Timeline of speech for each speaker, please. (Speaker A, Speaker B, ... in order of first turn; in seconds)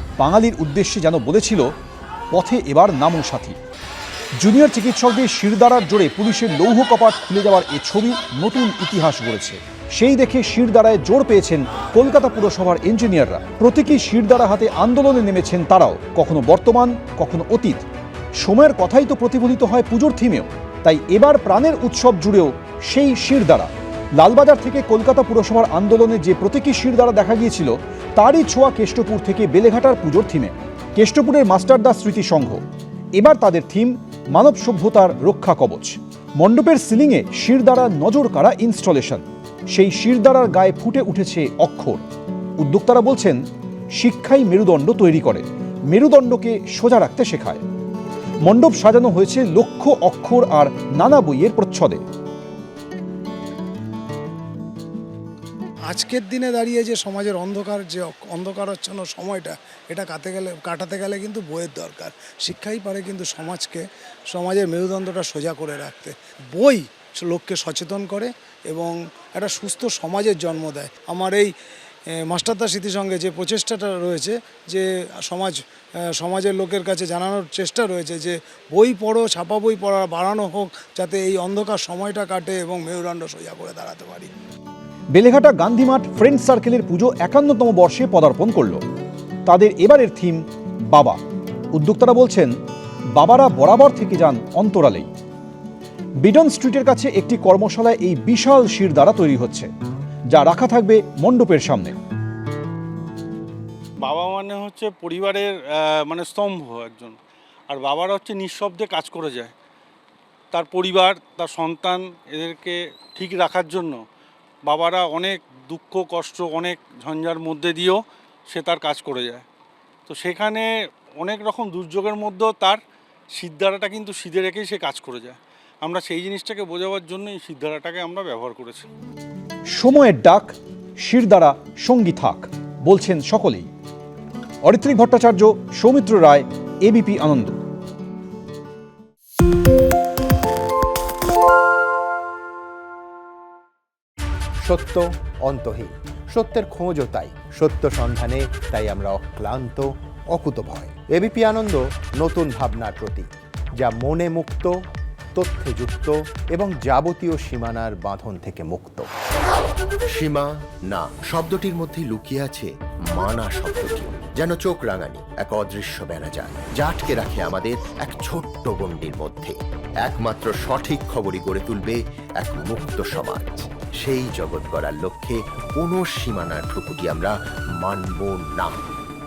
Speaker A: 0.2-1.7, 2.3-3.6, 4.4-17.8, 18.4-32.6, 33.1-42.0, 42.6-43.4, 43.9-47.6, 48.4-52.0, 85.1-88.8, 89.5-90.4, 90.9-91.2, 91.7-92.5, 93.1-95.1, 96.2-99.7, 100.3-102.0, 129.7-133.7, 134.6-137.6
Speaker B: 55.9-71.5, 72.2-75.5, 76.1-84.3
Speaker C: 104.0-107.2, 107.7-109.5, 110.5-114.0, 114.7-119.4, 120.1-120.7, 121.2-122.8, 123.3-128.9
Speaker D: 144.6-153.3, 153.8-154.8, 155.3-159.1
Speaker E: 160.1-178.9